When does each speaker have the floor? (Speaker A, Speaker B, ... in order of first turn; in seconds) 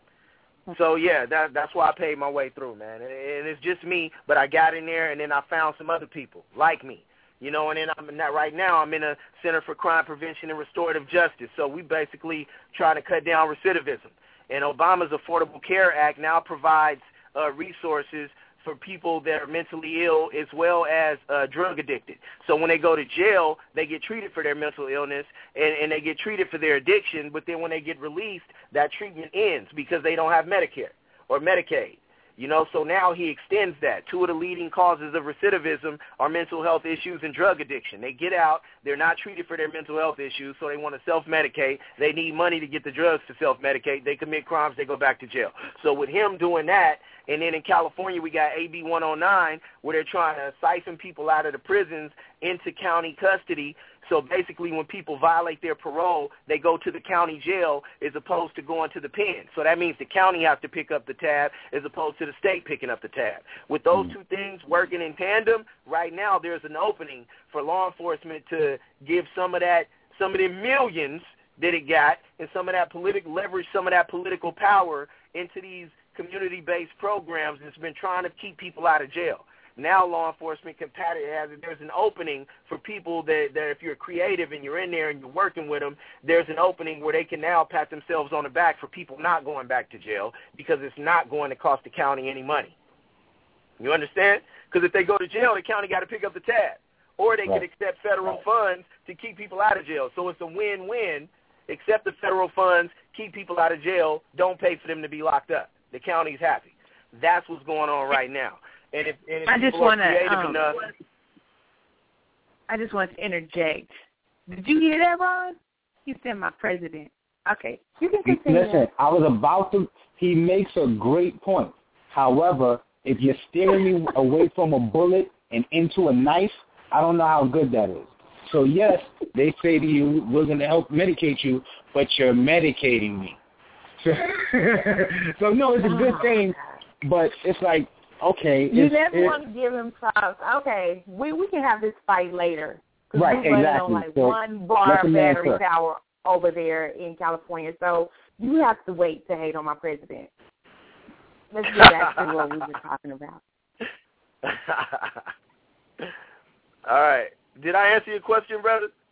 Speaker A: 0.7-92.7, 93.8-110.9, 151.8-152.3, 154.4-155.3, 156.8-158.9
Speaker B: 109.5-110.6, 112.7-113.9, 114.5-118.9, 135.8-136.4, 138.7-150.3, 151.5-153.4
Speaker C: 118.2-133.4, 134.0-139.4, 143.1-145.6